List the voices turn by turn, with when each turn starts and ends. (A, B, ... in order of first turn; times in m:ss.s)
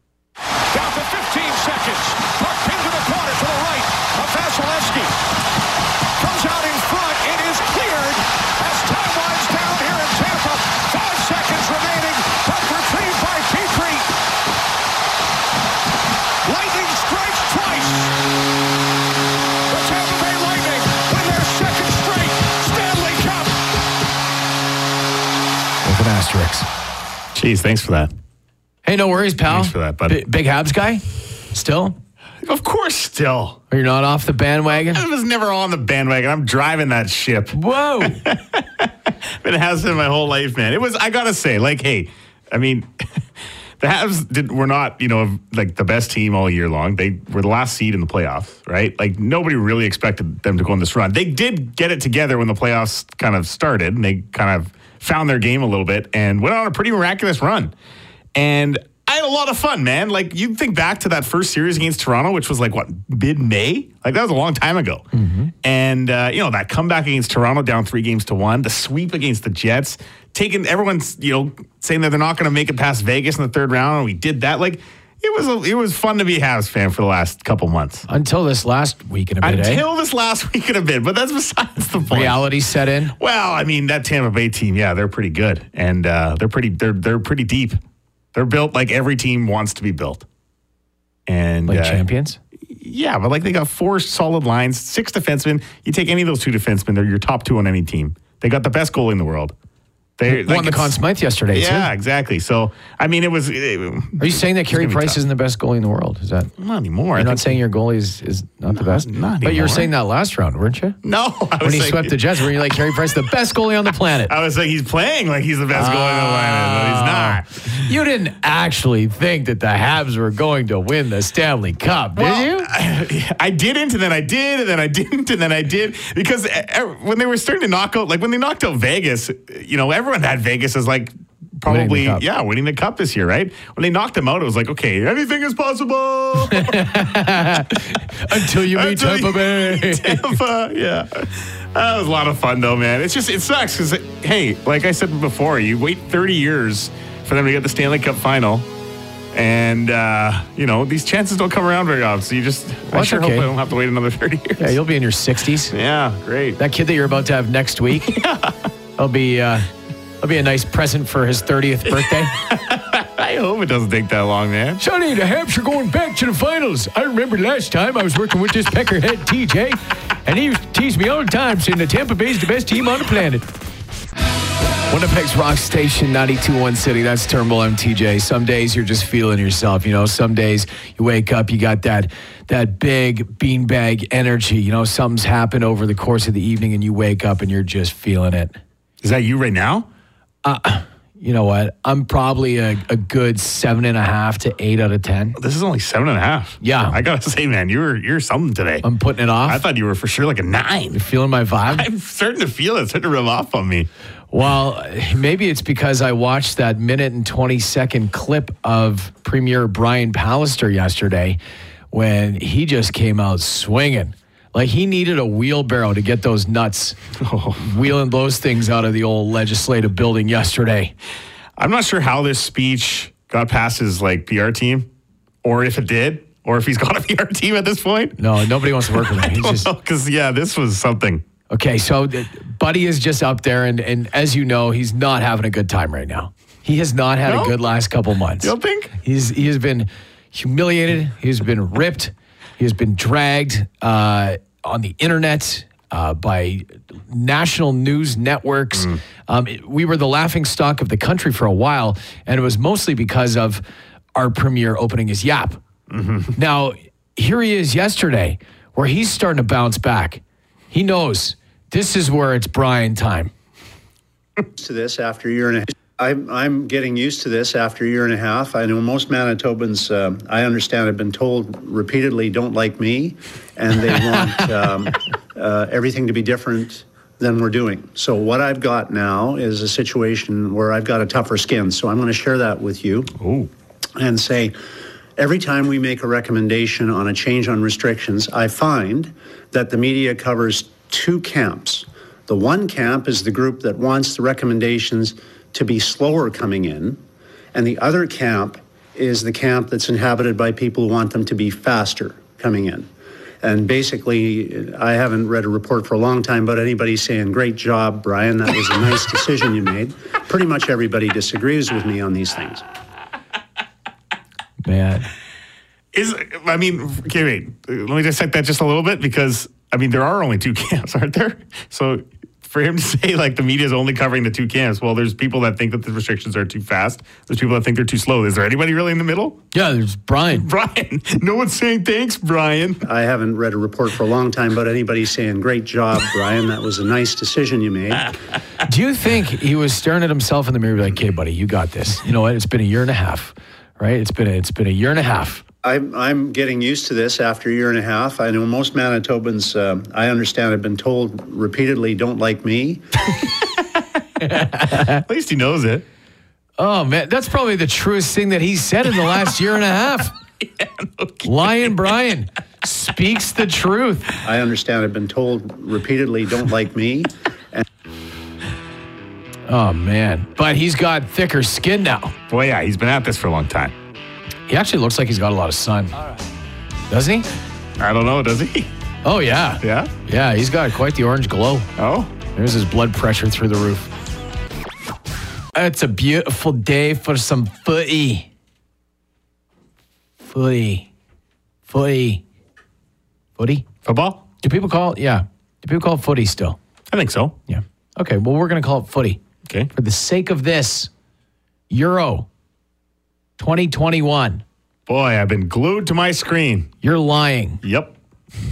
0:00.7-0:05.1 A
0:06.2-0:14.1 A
0:16.4-0:18.1 A
0:19.7-0:23.6 A
0:25.8-0:26.7 B
0:27.3-0:28.1 C
0:28.8-0:32.0 B
0:29.5-0:30.2 C
0:32.4-0:33.6 C
0:33.7-0:35.0 B
0:34.7-0:42.9 C
0:37.5-0:38.2 B
0:43.8-0:57.7 C
0:58.3-1:05.0 C
1:05.1-1:05.5 B
1:05.6-1:18.0 C
1:18.1-1:19.8 B
1:19.4-1:22.4 C
1:22.1-1:23.2 B
1:23.2-1:27.8 C
1:28.3-1:30.2 C
1:31.3-1:32.0 C
1:31.7-1:32.4 B
1:32.7-1:39.5 C
1:40.2-1:41.0 C
1:40.3-1:41.9 B
1:41.5-1:45.2 C
1:44.2-1:46.5 B
1:46.6-1:47.6 C
1:47.2-1:51.0 B
1:48.7-1:49.9 C
1:51.0-1:52.6 C
1:51.6-1:54.3 B
1:54.3-1:57.8 C
1:55.7-2:02.7 B
2:02.2-2:17.7 C
2:11.6-2:12.2 B
2:16.4-2:20.4 B
2:18.3-2:28.7 C
2:29.3-2:34.8 C
2:32.9-2:33.5 B
2:34.6-2:35.7 B
2:35.7-2:36.6 C
2:36.6-2:38.2 B
2:38.0-2:38.6 C
2:39.0-2:39.7 B
2:40.2-2:42.4 B
2:41.9-2:44.8 C
2:44.8-2:53.4 B
2:54.9-3:08.6 B
3:09.0-3:09.9 C
3:10.4-3:15.4 B
3:15.4-3:18.8 C
3:16.6-3:17.0 B
3:18.8-3:19.6 B
3:19.4-3:21.0 C
3:20.9-3:21.9 B
3:21.6-3:23.9 C
3:24.3-3:31.4 B
3:31.9-3:37.0 B
3:37.2-3:37.8 C
3:37.6-3:40.9 B
3:41.6-3:44.9 C
3:45.4-3:48.2 C
3:48.2-3:49.7 B
3:48.8-3:51.2 C
3:51.5-4:13.6 B
3:57.2-3:57.6 C
3:58.4-3:58.9 C
4:14.1-4:15.6 B
4:15.9-4:16.3 C
4:16.4-4:23.3 B
4:24.5-4:43.1 D
4:43.2-4:43.5 C
4:44.0-4:44.6 D
4:45.2-4:57.0 D
4:57.5-5:02.9 D
5:03.4-5:12.6 D
5:14.6-5:15.1 B
5:15.9-5:29.4 C
5:29.5-5:30.5 B
5:30.3-5:32.8 C
5:32.8-5:38.1 D
5:38.6-5:45.4 B
5:45.6-5:53.1 D
5:54.2-5:55.0 B
5:54.7-5:55.8 C
5:56.6-6:00.1 B
6:00.4-6:01.7 C
6:01.2-6:04.1 B
6:04.2-6:07.6 D
6:09.5-6:12.1 B
6:12.3-6:13.7 C
6:14.5-6:15.9 B
6:16.9-6:17.3 B
6:17.8-6:18.7 C
6:19.0-6:21.7 B
6:19.6-6:19.9 C
6:21.8-6:22.1 C
6:22.3-6:23.9 B
6:25.5-6:28.3 B
6:30.2-6:30.9 B
6:31.7-6:32.2 B
6:33.4-6:33.6 B
6:33.8-6:34.2 C
6:34.4-6:36.6 B
6:36.9-6:37.4 C
6:37.5-6:39.2 B
6:39.7-6:40.9 B
6:41.7-6:42.3 B
6:43.4-6:44.4 B
6:44.9-6:46.7 C
6:46.8-6:47.6 B
6:47.6-6:47.9 C